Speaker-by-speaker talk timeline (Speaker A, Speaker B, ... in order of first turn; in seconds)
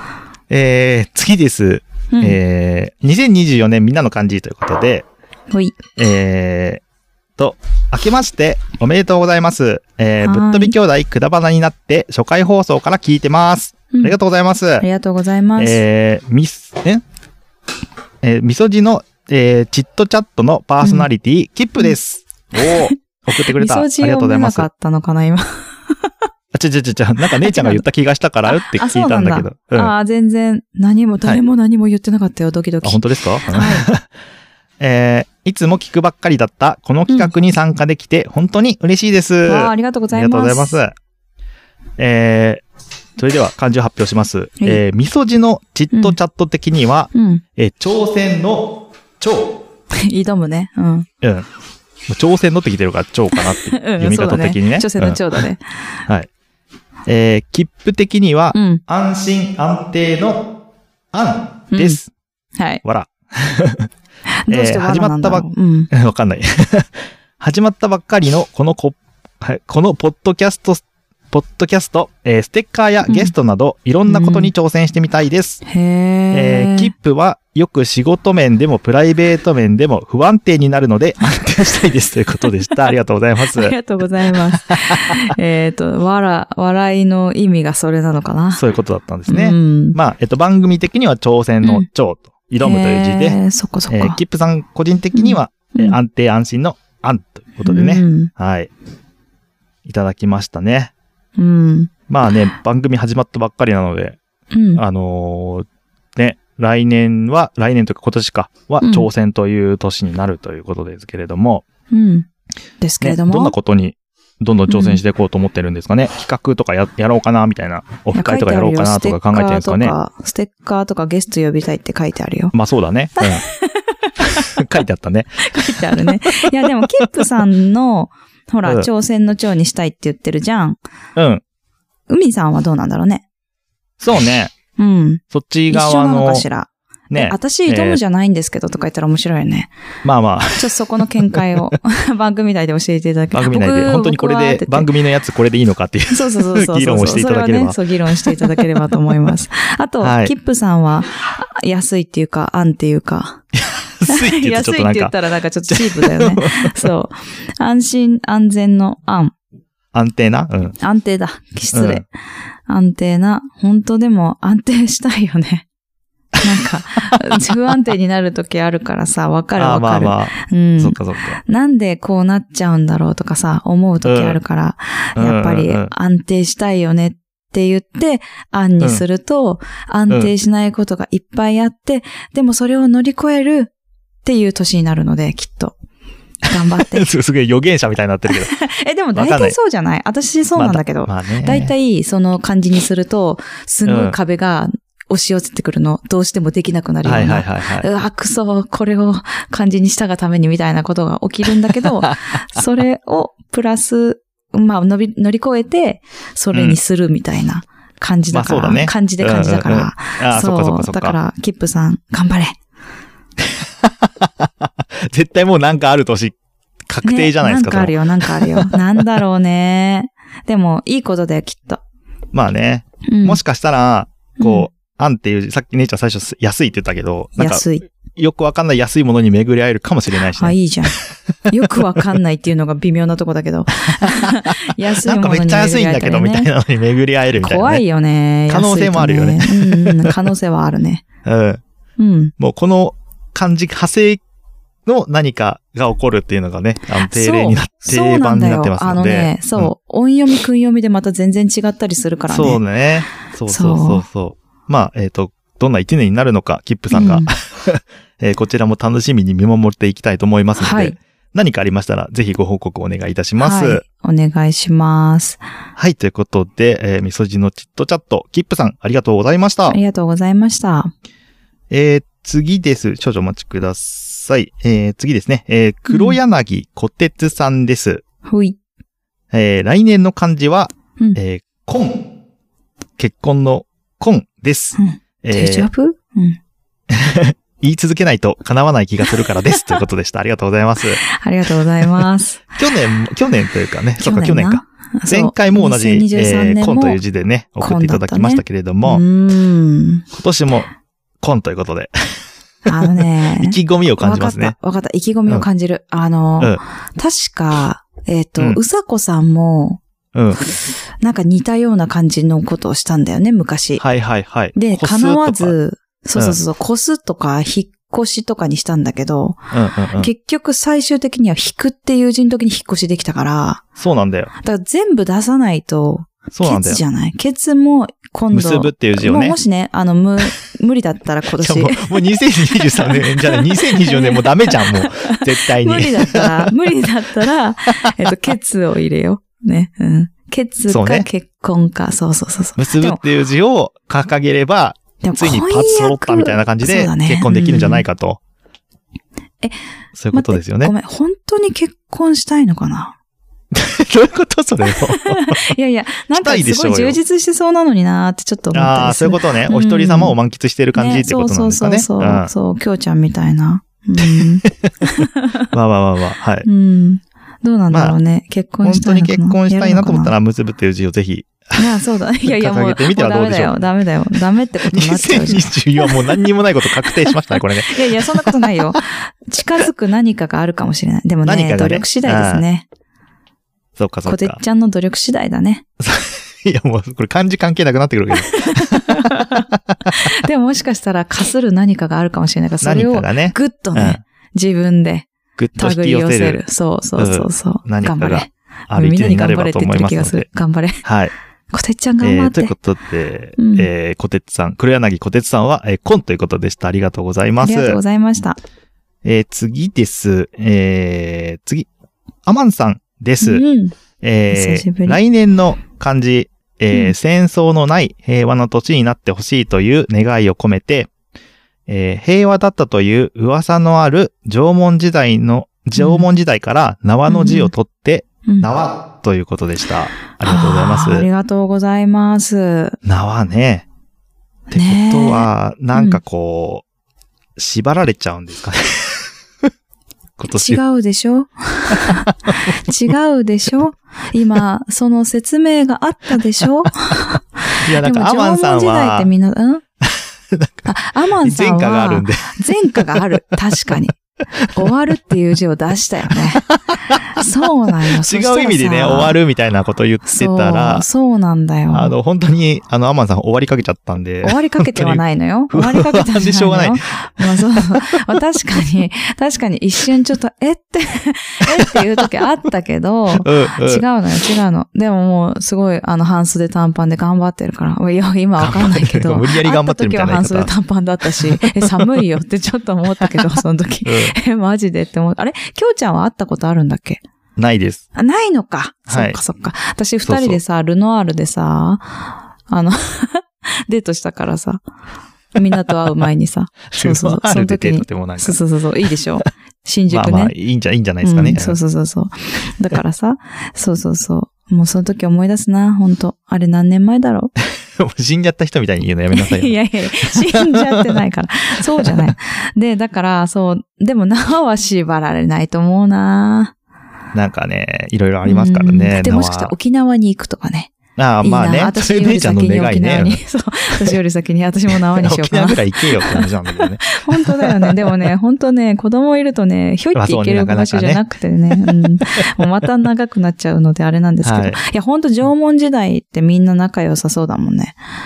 Speaker A: 0.5-5.1, 6.0-6.8, 7.4-14.8, 15.6-17.0, 18.2-24.7, 26.5-29.9, 32.8-34.1, 34.8-41.0, 42.0-42.6, 43.2-49.6, 51.2-51.5, 52.1-55.4, 57.1-60.5, 61.1-62.1, 62.8-63.9, 64.5-75.6, 76.3-83.8, 84.5-85.2, 88.5-93.4, 93.9-98.7, 99.8-100.9, 102.1-104.2, 104.8-111.6, 113.0-120.0, 122.5-123.4, 124.2-127.1, 131.2-131.4, 134.0-134.5, 135.3-136.5, 137.1-138.0, 140.0-140.8, 141.3-141.7, 143.3-148.7, 150.0-150.3, 153.7-155.1, 155.7-156.9, 159.9-160.8, 161.7-162.0, 169.6-171.4, 174.0-174.4, 175.2-175.9, 186.8-188.5, 189.2-189.6, 190.6-191.7, 193.9-194.2, 197.0-197.9, 206.5-206.8, 208.3-211.2, 213.4-216.4, 216.9-219.0, 222.3-230.6, 234.0-237.8, 238.5-240.3, 241.2-241.6, 242.4-244.2, 244.9-249.7, 252.3-263.8, 265.8-269.8, 271.7-278.0, 279.3-282.1, 283.0-285.7, 286.9-291.0, 291.8-292.1, 292.6-299.0, 300.1-300.7, 301.2-302.2, 302.8-304.6, 310.1-310.4, 313.8-315.6, 319.5-320.1, 323.8-324.3, 326.3-326.8, 328.3-329.4, 331.4-336.5, 337.8-338.1, 340.7-341.1, 342.6-348.2, 350.0-350.7, 353.5-355.5, 356.1-357.0, 358.5-362.3, 364.0-366.5, 367.7-368.0, 368.6-371.6, 372.2-373.6, 374.6-378.7, 381.2-382.4, 383.8-384.4, 385.8-389.5, 392.6-394.0, 395.4-396.4, 397.0-400.3, 400.8-401.1, 402.0-407.8, 409.0-411.7, 412.3-413.4, 414.0-420.9, 421.7-431.1, 432.8-433.6, 434.5-436.6, 437.4-439.1, 440.2-440.6, 441.7-442.9, 447.6-449.1, 449.8-453.2, 456.1-457.3, 457.9-460.9, 461.7-468.1, 473.2-473.8, 478.4-480.5, 481.1-481.8, 483.9-484.1, 487.4-487.9, 488.9-489.2, 490.1-490.4, 496.7-498.4, 499.9-501.6, 507.8-511.0, 511.8-512.1, 517.1-519.5, 521.0-523.2, 524.9-528.1, 530.0-531.0, 531.5-532.3, 534.2-534.6
Speaker B: 5.5-5.8, 10.2-10.8, 14.8-15.8, 20.8-21.1, 22.6-26.1, 27.3-27.8, 28.5-33.9, 39.5-40.8, 47.1-47.4, 49.9-51.1, 53.4-55.6, 58.5-58.8, 61.7-62.0, 62.6-62.8, 64.3-65.9, 73.1-73.3, 74.1-74.5, 75.7-76.9, 83.5-88.6, 89.3-90.0, 92.6-94.2, 95.1-96.0, 97.7-98.3, 101.4-101.9, 104.5-104.8, 108.8-109.1, 111.9-112.3, 112.8-113.5, 114.7-115.0, 118.1-122.5, 123.2-124.6, 125.4-130.8, 132.1-133.2, 134.8-139.7, 140.6-144.9, 146.1-153.4, 154.1-159.3, 160.8-162.1, 162.7-165.7, 166.4-183.7, 184.2-185.8, 186.4-187.1, 188.3-212.6, 217.0-221.8, 223.1-223.4, 224.4-224.7, 227.4-227.9, 230.4-231.0, 231.5-236.5, 237.4-241.1, 242.0-242.3, 247.0-252.6, 253.5-254.1, 256.9-257.3, 260.6-261.0, 263.4-265.4, 269.7-270.9, 275.9-276.2, 278.2-278.6, 284.8-286.4, 291.0-292.5, 294.0-297.0, 297.6-300.1, 302.7-309.8, 310.4-313.8, 314.6-319.4, 320.0-323.6, 324.4-332.0, 332.6-343.0, 345.0-347.9, 350.1-353.0, 354.7-360.2, 360.8-365.5, 366.4-370.1, 371.6-376.2, 376.9-382.7, 384.1-385.6, 388.3-400.8, 401.5-402.5, 403.4-403.7, 407.4-408.4, 413.2-413.8, 414.3-415.0, 425.8-426.1, 427.1-427.5, 430.2-432.8, 434.5-436.0, 440.3-449.6, 450.7-454.0, 454.5-459.2, 460.1-461.9, 464.2-487.0, 487.9-494.6, 495.3-500.3, 501.0-507.3, 509.1-516.5, 518.2-537.8